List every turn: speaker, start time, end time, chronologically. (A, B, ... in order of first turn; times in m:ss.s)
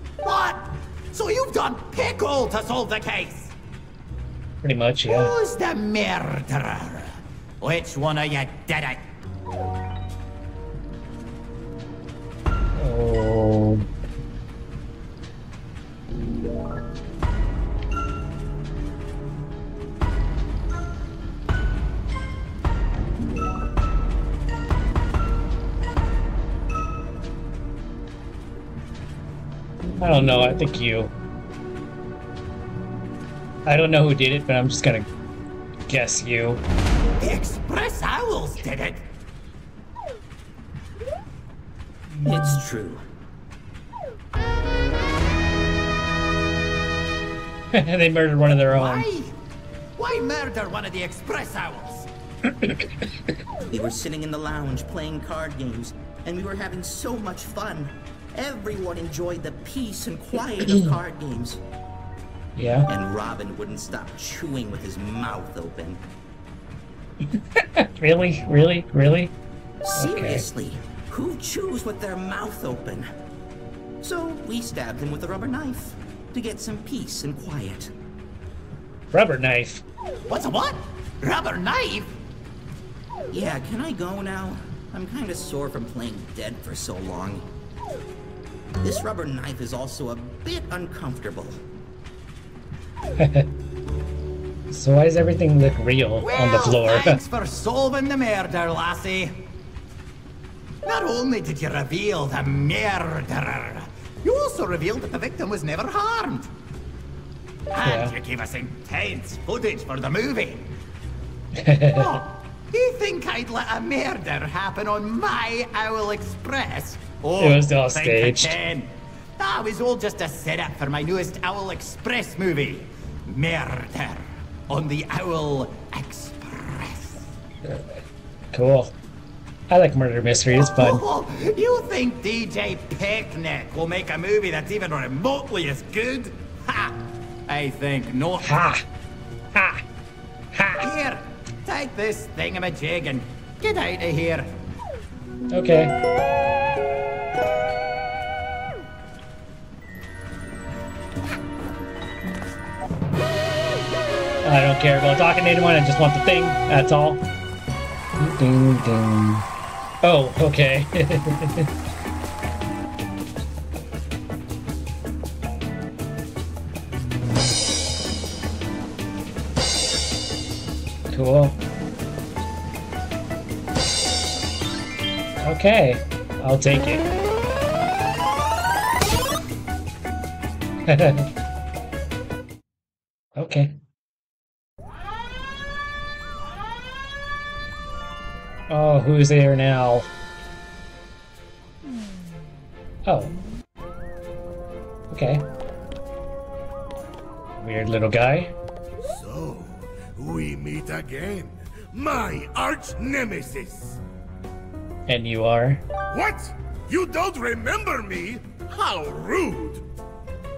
0:00.2-0:03.5 A
0:04.6-0:05.3 B
0:05.1-0:09.0 A
0:12.8-0:13.8 B
0:30.0-0:31.1 B
0:33.6-0:35.0 B
0:35.9-0:36.6 B
0:37.2-0:39.1 A
0:42.1-0:42.6 B
0:42.2-0:43.0 C
0:47.7-0:49.0 B
0:48.7-0:49.4 A
0:50.0-0:52.1 A
0:52.5-0:53.1 B
0:53.6-1:01.6 C
1:00.6-1:00.9 B
1:02.6-1:02.9 B
1:02.9-1:06.0 C
1:07.3-1:09.3 B
1:09.8-1:13.1 C
1:09.9-1:10.4 B
1:14.0-1:17.9 C
1:19.1-1:19.8 B
1:20.3-1:22.1 A
1:23.3-1:27.5 C
1:28.8-1:31.6 C
1:33.2-1:33.5 B
1:34.7-1:37.2 B
1:36.2-1:39.4 A
1:40.8-1:46.5 A
1:47.7-1:50.7 A
1:47.8-1:48.1 B
1:51.6-1:52.1 B
1:51.9-2:07.3 A
1:57.4-1:58.6 B
2:07.6-2:08.9 B
2:09.7-2:11.0 B
2:10.6-2:18.7 A
2:18.4-2:18.8 B
2:19.5-2:19.8 B
2:20.5-2:20.9 B
2:20.8-2:24.6 A
2:25.5-2:25.9 B
2:34.4-2:37.2 B
2:38.2-2:39.4 B
2:40.0-2:41.7 B
2:51.1-2:51.6 B
2:55.4-2:57.0 B
3:00.9-3:01.3 B
3:03.4-3:03.7 B
3:08.7-3:10.1 B
3:13.0-3:13.4 B
3:15.1-3:15.4 B
3:17.6-3:18.5 B
3:19.0-3:24.0 D
3:25.1-3:25.8 B
3:26.1-3:29.8 D